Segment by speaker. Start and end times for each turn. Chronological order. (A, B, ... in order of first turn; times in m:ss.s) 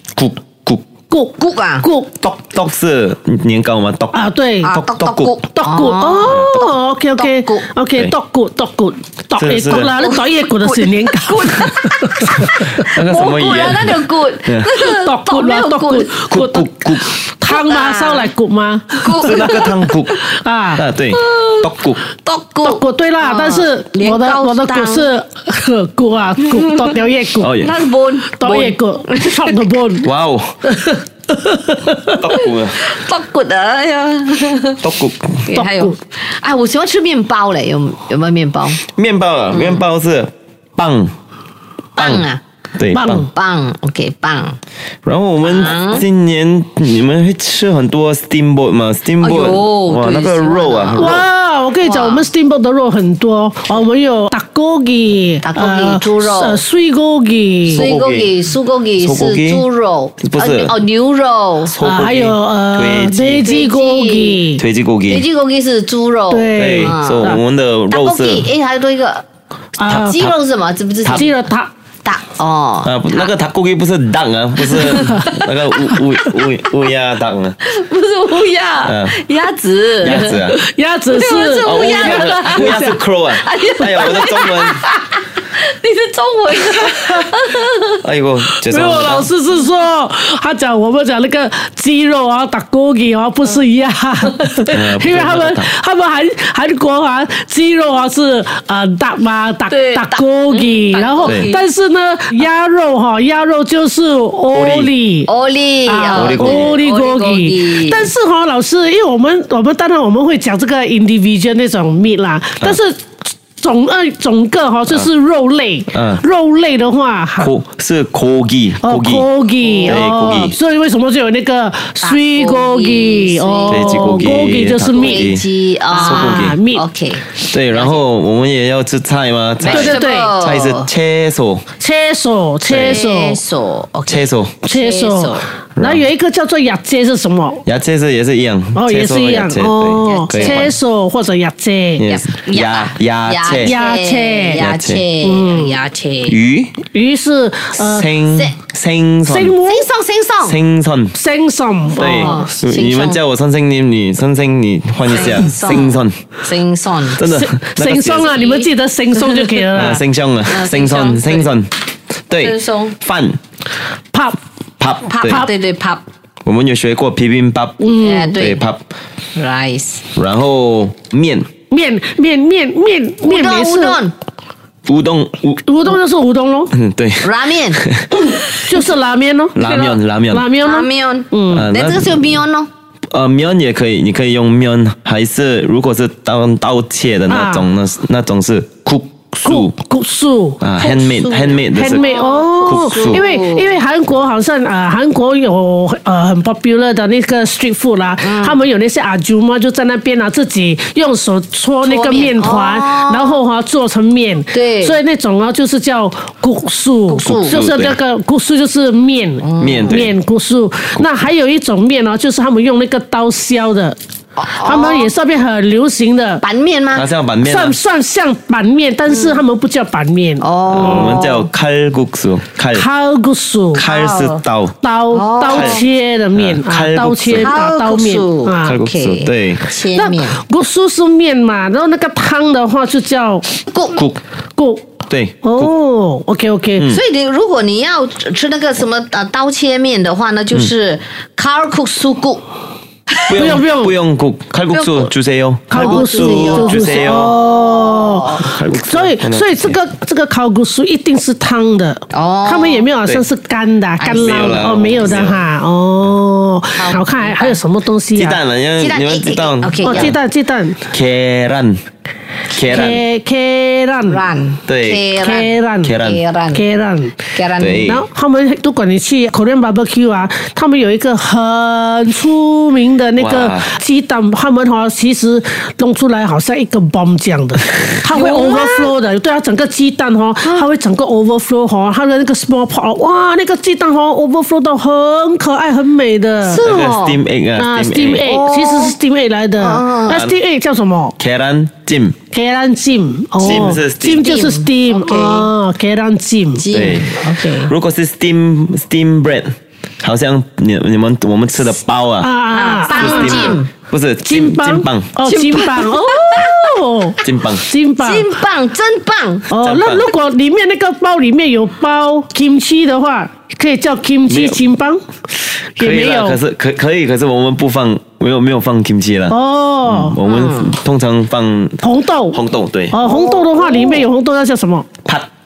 0:00.2-0:00.8 A
0:01.1-0:02.1 B
0:01.4-0:01.9 C
0:02.2-0:05.4 A
0:04.1-0:04.8 B
0:04.6-0:07.7 C
0:05.5-0:12.7 B
0:09.4-0:10.0 A
0:10.0-0:16.2 C
0:12.9-0:14.7 A
0:15.0-0:16.7 B
0:16.3-0:17.2 A
0:17.2-0:19.8 B
0:17.5-0:18.3 C
0:19.0-0:19.9 C
0:19.1-0:20.2 A
0:20.3-0:20.8 B
0:20.8-0:22.0 A
0:21.1-0:25.1 C
0:22.6-0:27.5 B
0:26.6-0:26.9 C
0:27.4-0:27.7 A
0:27.6-0:29.7 C
0:28.3-0:30.1 B
0:30.0-0:30.6 A
0:30.7-0:32.1 B
0:32.1-0:32.8 A
0:32.2-0:34.8 C
0:34.8-0:35.4 A
0:35.5-0:38.8 C
0:35.5-0:36.0 B
0:38.8-0:41.1 A
0:39.5-0:39.9 C
0:42.0-0:42.4 C
0:42.0-0:43.3 A
0:43.0-0:43.3 B
0:43.2-0:44.6 C
0:45.0-0:51.2 A
0:45.4-0:46.0 C
0:49.2-0:51.2 C
0:51.0-0:57.9 B
0:51.8-0:52.3 C
0:55.4-0:56.6 C
0:57.7-0:58.4 A
0:57.7-1:01.7 C
0:59.0-0:59.7 A
1:00.2-1:00.8 A
1:01.7-1:03.6 A
1:01.8-1:04.6 B
1:03.4-1:04.4 C
1:04.6-1:05.3 A
1:05.1-1:07.4 C
1:06.3-1:07.4 B
1:06.6-1:08.5 A
1:07.9-1:09.2 C
1:09.8-1:10.2 B
1:09.9-1:10.4 A
1:09.9-1:11.3 C
1:11.0-1:11.3 A
1:11.1-1:11.7 B
1:12.0-1:13.3 C
1:12.8-1:17.6 A
1:14.7-1:15.4 C
1:17.6-1:20.4 C
1:18.8-1:19.2 A
1:20.0-1:20.6 A
1:20.0-1:22.9 B
1:21.1-1:24.7 C
1:21.6-1:24.8 A
1:25.6-1:28.0 C
1:28.0-1:29.3 A
1:28.7-1:45.3 B
1:34.7-1:35.7 A
1:39.7-1:41.6 C
1:41.2-1:41.5 A
1:44.5-1:44.9 A
1:45.3-1:48.1 C
1:45.9-1:53.1 B
1:46.1-1:46.8 A
1:53.6-1:57.5 B
1:55.9-1:56.2 A
1:57.4-1:59.3 A
1:58.8-2:05.2 B
1:59.6-2:00.5 C
1:59.8-2:00.6 A
2:02.0-2:04.4 C
2:03.7-2:06.6 A
2:04.9-2:08.0 C
2:05.9-2:06.8 B
2:07.5-2:11.7 A
2:09.6-2:10.9 C
2:09.6-2:10.4 B
2:11.8-2:13.4 B
2:12.7-2:13.0 A
2:12.7-2:15.5 C
2:14.1-2:14.6 A
2:14.6-2:17.6 B
2:15.8-2:16.1 A
2:17.6-2:20.8 A
2:18.8-2:22.0 B
2:20.0-2:20.7 C
2:22.0-2:23.8 A
2:22.0-2:26.4 C
2:23.5-2:24.7 B
2:24.5-2:25.0 A
2:25.2-2:25.8 B
2:26.3-2:26.7 A
2:26.9-2:28.1 B
2:27.8-2:29.6 A
2:28.3-2:28.6 C
2:29.3-2:29.9 B
2:29.6-2:30.6 C
2:30.4-2:31.2 A
2:31.1-2:32.5 B
2:32.0-2:36.2 A
2:32.0-2:33.2 C
2:35.1-2:37.2 C
2:37.2-2:38.4 A
2:37.2-2:40.0 B
2:38.1-2:39.9 C
2:39.8-2:41.7 A
2:40.5-2:41.5 C
2:42.3-2:43.4 A
2:42.4-2:43.0 C
2:44.1-2:44.4 B
2:44.8-2:45.5 A
2:45.0-2:46.0 C
2:45.2-2:45.5 B
2:46.4-2:48.8 A
2:47.8-2:48.4 B
2:47.9-2:48.7 C
2:49.4-2:50.0 C
2:50.2-2:51.5 A
2:51.7-2:54.0 B
2:53.2-2:54.1 C
2:54.9-2:55.6 A
2:55.6-2:56.7 B
2:56.7-2:58.1 A
2:57.2-2:57.8 C
2:58.5-3:01.6 B
2:59.6-3:00.5 A
3:00.6-3:02.7 C
3:01.5-3:02.4 A
3:03.1-3:09.7 A
3:07.3-3:07.7 B
3:09.4-3:10.6 B
3:10.6-3:13.3 A
3:10.8-3:13.8 C
3:11.7-3:34.0 B
3:18.2-3:18.6 C
3:21.8-3:23.4 C
3:24.5-3:25.0 C
3:27.1-3:27.6 C
3:27.2-3:28.0 A
3:29.4-3:30.1 C
3:29.6-3:30.2 A
3:34.4-3:35.1 C
3:34.5-3:36.4 B
3:36.4-3:37.1 C
3:36.9-3:37.8 A
3:37.4-3:40.5 B
3:39.1-3:39.4 C
3:40.4-3:41.5 C
3:40.7-3:42.9 A
3:42.7-3:43.8 B
3:43.7-3:44.8 A
3:43.8-3:44.4 C
3:44.8-3:48.8 B
3:45.1-3:45.8 C
3:45.5-3:45.8 A
3:46.4-3:47.6 A
3:47.3-3:50.4 C
3:48.6-3:49.7 A
3:49.9-3:53.5 B
3:53.7-3:54.0 C
3:53.9-3:54.2 A
3:54.6-3:56.9 B
3:55.1-3:55.7 A
3:56.9-4:02.4 C
4:03.2-4:03.6 C
4:03.3-4:07.4 A
4:03.4-4:04.0 B
4:04.7-4:05.1 C
4:05.7-4:18.4 B
4:05.8-4:08.5 C
4:08.4-4:09.8 A
4:12.1-4:12.9 C
4:14.0-4:15.2 C
4:14.2-4:15.4 A
4:16.8-4:17.6 C
4:18.2-4:20.2 A
4:18.8-4:20.2 C
4:19.8-4:20.9 B
4:20.9-4:21.8 A
4:22.5-4:23.0 A
4:22.7-4:24.3 B
4:24.1-4:26.6 C
4:24.7-4:25.1 A
4:25.2-4:26.0 B
4:25.8-4:26.2 A
4:26.5-4:27.2 B
4:27.3-4:28.0 C
4:27.6-4:28.0 A
4:27.9-4:46.6 B
4:33.2-4:33.8 A
4:38.1-4:38.9 C
4:46.4-4:47.2 C
4:46.6-4:48.3 A
4:47.6-4:51.2 B
4:48.2-4:49.0 C
4:49.6-4:50.2 C
4:50.1-4:50.4 A
4:51.2-4:52.2 A
4:52.3-4:56.7 B
4:53.4-4:54.3 A
4:53.4-4:55.5 C
4:56.6-4:57.7 C
4:56.7-5:02.3 A
5:02.2-5:03.6 B
5:02.5-5:03.7 C
5:02.8-5:05.2 A
5:04.2-5:08.3 B
5:05.2-5:06.6 C
5:07.2-5:07.7 A
5:08.0-5:09.5 C
5:09.5-5:15.0 B
5:09.6-5:10.1 A
5:14.3-5:14.7 A
5:15.8-5:16.4 B
5:15.8-5:23.0 A
5:19.3-5:20.2 B
5:20.2-5:20.8 C
5:21.8-5:22.4 B
5:22.9-5:24.9 B
5:23.0-5:24.1 C